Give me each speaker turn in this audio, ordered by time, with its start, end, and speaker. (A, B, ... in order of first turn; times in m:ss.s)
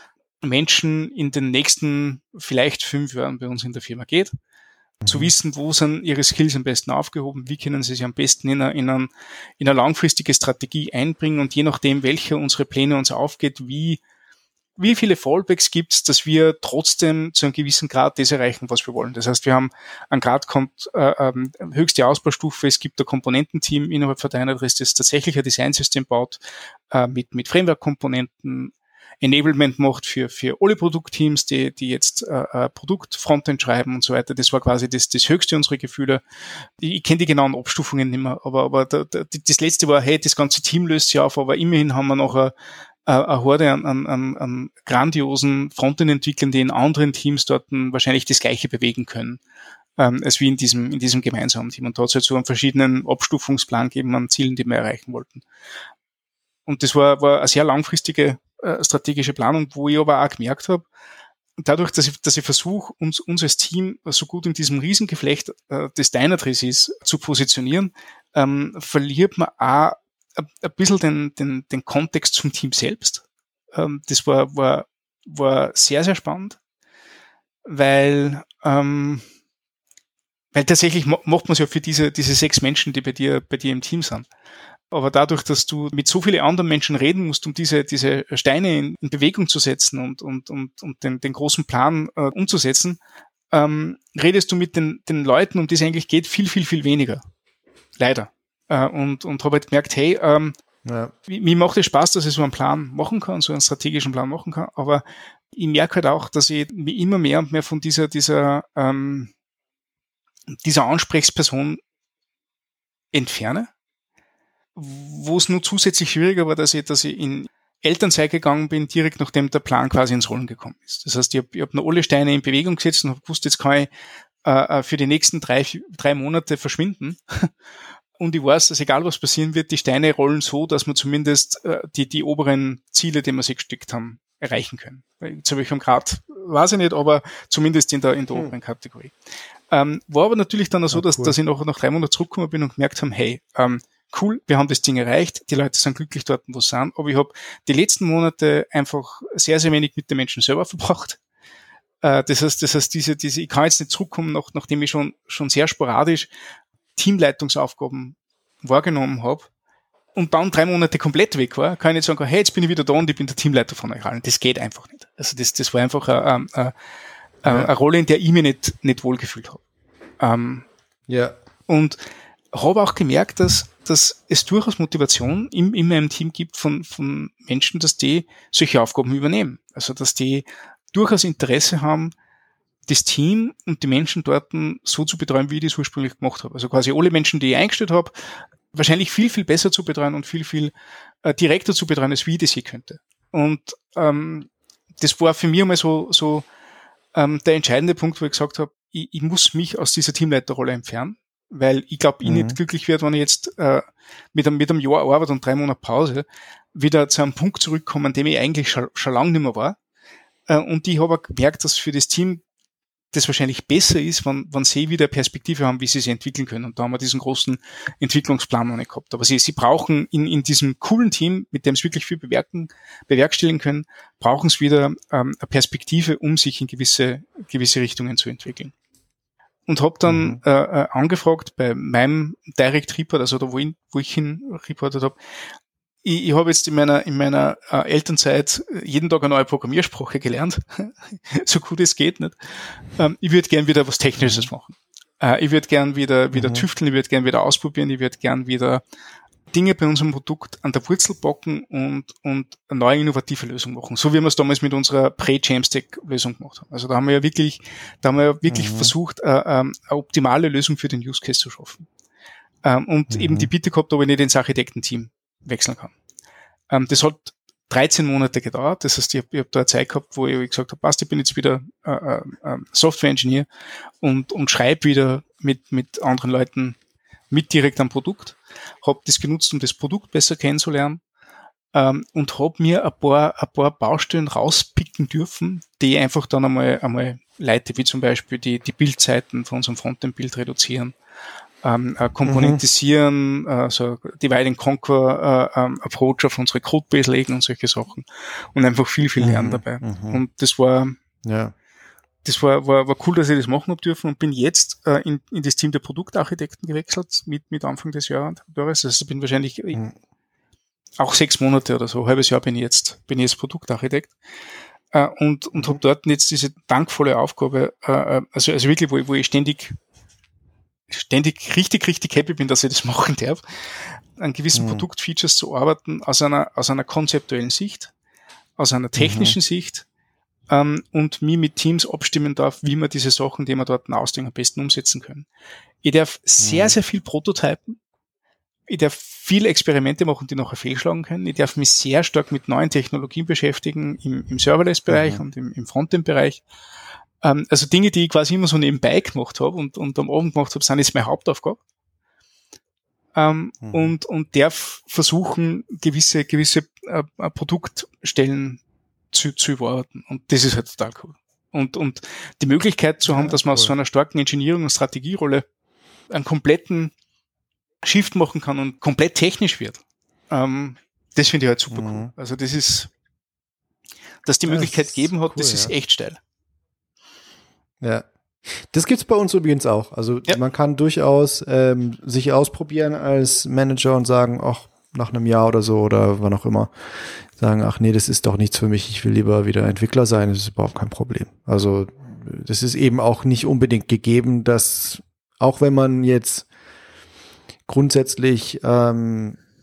0:00.4-0:04.3 A
0:05.0-0:05.3 B
0:05.1-0:09.1 A
0:09.6-0:14.0 A
0:14.8-0:26.4 A
0:26.9-0:36.2 A
0:36.8-0:42.5 A
0:43.1-0:49.4 A
0:50.0-0:55.4 A
0:56.7-1:00.9 A
1:01.6-1:16.6 A
1:17.6-1:19.2 A
1:20.5-1:24.3 A
1:24.9-1:33.0 A
1:33.5-1:37.2 A
1:38.0-1:40.6 A
1:40.8-1:41.1 B
1:41.3-1:49.3 A
1:50.6-1:51.8 A
1:53.1-1:53.7 A
1:54.8-2:03.9 A
2:04.4-2:07.5 A
2:08.2-2:19.1 A
2:19.7-2:31.2 A
2:20.9-2:21.4 B
2:32.0-2:36.3 A
2:37.0-2:39.5 A
2:40.2-2:46.7 A
2:47.4-2:49.6 A
2:50.2-2:50.7 A
2:51.1-2:51.4 B
2:51.7-2:52.0 A
2:52.5-3:02.1 A
3:02.9-3:08.1 A
3:08.7-3:10.7 A
3:11.2-3:14.5 A
3:15.0-3:16.4 A
3:17.1-3:29.8 A
3:22.2-3:22.6 B
3:30.5-3:32.4 A
3:33.1-3:48.7 A
3:49.7-3:55.2 A
3:50.1-3:50.4 B
3:56.0-4:08.8 A
4:04.2-4:04.5 B
4:06.3-4:06.7 B
4:09.5-4:21.8 A
4:18.5-4:18.9 B
4:22.6-4:25.9 A
4:23.1-4:23.5 B
4:26.7-4:33.5 A
4:34.0-4:36.8 A
4:37.3-4:41.0 A
4:41.7-4:50.9 A
4:51.6-5:01.0 A
4:52.2-4:52.6 B
4:59.2-5:00.2 B
5:01.2-5:01.5 B
5:02.2-5:09.8 A
5:11.0-5:14.1 A
5:14.9-5:19.8 A
5:20.9-5:27.9 A
5:24.5-5:24.9 B
5:28.6-5:29.9 A
5:29.0-5:29.4 B
5:30.5-5:35.3 A
5:35.8-5:37.8 A
5:36.4-5:36.8 B
5:38.7-5:46.4 A
5:44.9-5:45.2 B
5:47.2-5:51.6 A
5:53.2-5:58.6 A
5:53.6-5:53.9 B
5:59.1-6:05.5 A
6:03.1-6:03.7 B
6:06.1-6:06.9 A
6:07.8-6:12.9 A
6:11.7-6:12.1 B
6:14.2-6:16.2 A
6:14.5-6:15.7 B
6:17.8-6:26.7 B
6:27.4-6:36.5 B
6:37.7-6:39.4 B